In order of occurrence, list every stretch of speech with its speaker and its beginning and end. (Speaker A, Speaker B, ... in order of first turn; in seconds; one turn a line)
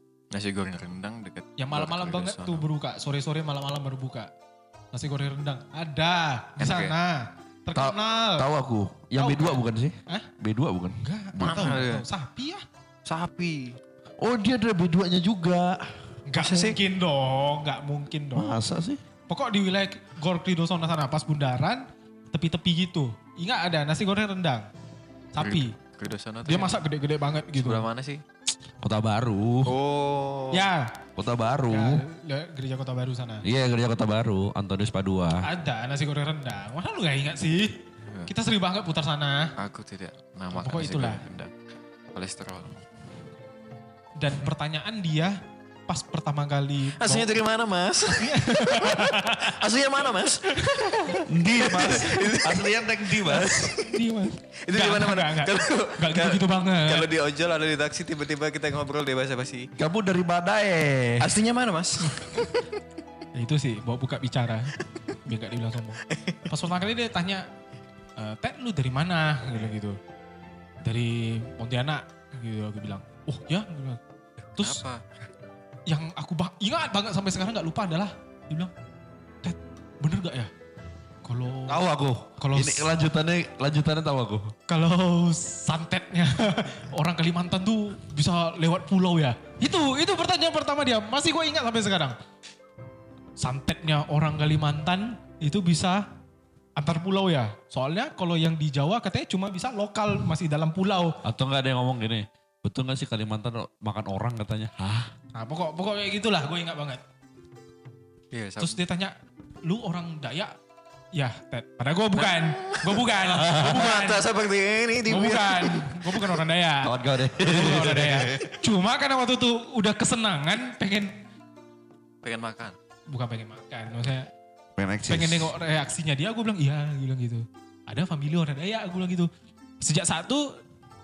Speaker A: 0.3-2.6
Speaker B: 1.6-4.3
Speaker B: 4.9-8.5
Speaker A: 6.6-6.9
Speaker C: 7.7-11.7
Speaker B: 9.2-10.3
Speaker B: 11.0-12.6
Speaker A: 11.4-12.1
Speaker A: 13.1-13.8
Speaker C: 14.2-16.0
Speaker B: 16.3-18.6
Speaker A: 16.4-16.8
Speaker C: 18.3-19.0
Speaker B: 19.3-24.7
Speaker B: 25.3-25.8
Speaker A: 25.4-26.8
Speaker B: 26.4-27.9
Speaker A: 27.5-28.2
Speaker C: 28.8-29.8
Speaker A: 29.6-30.7
Speaker B: 30.5-31.0
Speaker C: 31.2-32.0
Speaker B: 31.7-33.4
Speaker C: 33.4-35.5
Speaker B: 35.4-39.5
Speaker A: 39.6-41.5
Speaker B: 40.5-41.2
Speaker A: 42.1-42.8
Speaker B: 44.2-45.4
Speaker B: 45.9-47.3
Speaker A: 46.9-53.9
Speaker B: 48.2-49.6
Speaker B: 50.5-51.2
Speaker C: 51.3-53.7
Speaker B: 53.8-57.1
Speaker A: 54.6-59.7
Speaker C: 59.8-61.4
Speaker A: 61.2-62.6
Speaker B: 63.3-67.5
Speaker A: 66.1-66.4
Speaker B: 68.2-70.0
Speaker B: 70.8-74.0
Speaker A: 74.6-75.0
Speaker B: 74.6-74.8
Speaker B: 75.9-78.7
Speaker B: 79.4-80.5
Speaker B: 81.2-81.8
Speaker C: 81.7-84.5
Speaker B: 82.4-82.9
Speaker B: 84.7-92.2
Speaker B: 93.4-96.1
Speaker B: 96.8-101.2
Speaker C: 101.2-105.1
Speaker B: 105.3-107.0
Speaker A: 108.3-108.8
Speaker B: 108.6-110.5
Speaker B: 111.1-114.3
Speaker A: 112.2-116.2
Speaker C: 113.3-113.8
Speaker B: 115.0-121.2
Speaker C: 116.8-118.3
Speaker A: 118.0-118.5
Speaker A: 122.2-122.8
Speaker B: 123.1-124.3
Speaker C: 124.8-125.5
Speaker B: 125.1-129.3
Speaker B: 129.8-130.6